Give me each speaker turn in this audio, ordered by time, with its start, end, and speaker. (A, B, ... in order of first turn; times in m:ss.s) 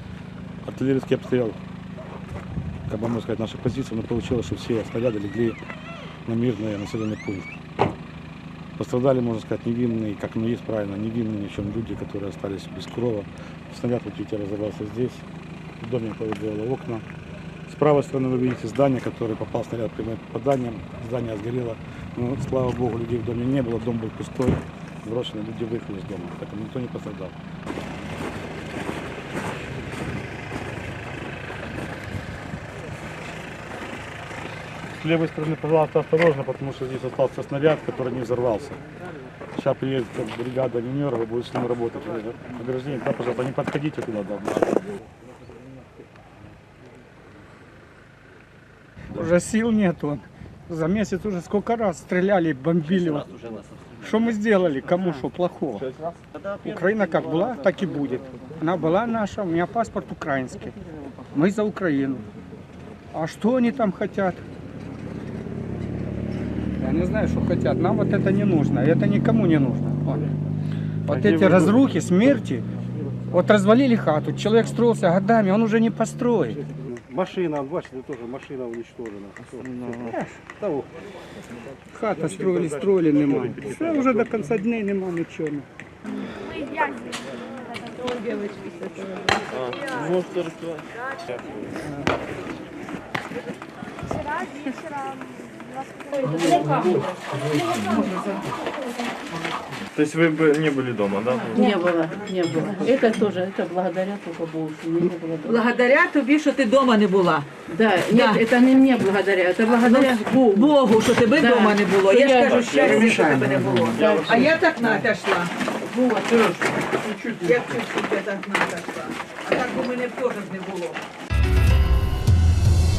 0:00.6-0:01.6 A
0:02.9-0:05.6 A
0:06.2-0:07.6 A
0:08.8-0:15.2 A
0:15.8-0:17.0 A
0:17.7-0:27.3 A
0:34.9-0:38.8 A
0:39.6-0:44.8 A
0:49.1-0:53.4 B
0:54.0-0:55.9 B
0:56.5-1:00.8 B
1:01.3-1:02.2 B
1:03.1-1:04.4 B
1:06.8-1:10.3 B
1:11.1-1:12.6 B
1:13.3-1:16.6 B
1:16.9-1:20.9 C
1:20.1-1:20.4 B
1:21.9-1:25.7 B
1:28.1-1:29.2 D
1:29.5-1:30.8 E
1:36.3-1:36.8 F
1:36.5-1:36.9 D
1:39.9-1:41.6 E
1:41.4-1:45.7 F
1:45.4-1:47.5 D
1:47.7-1:50.8 F
1:48.1-1:48.4 D
1:49.8-1:55.5 D
1:51.3-1:54.5 F
1:55.9-1:56.4 F
1:57.4-2:01.0 D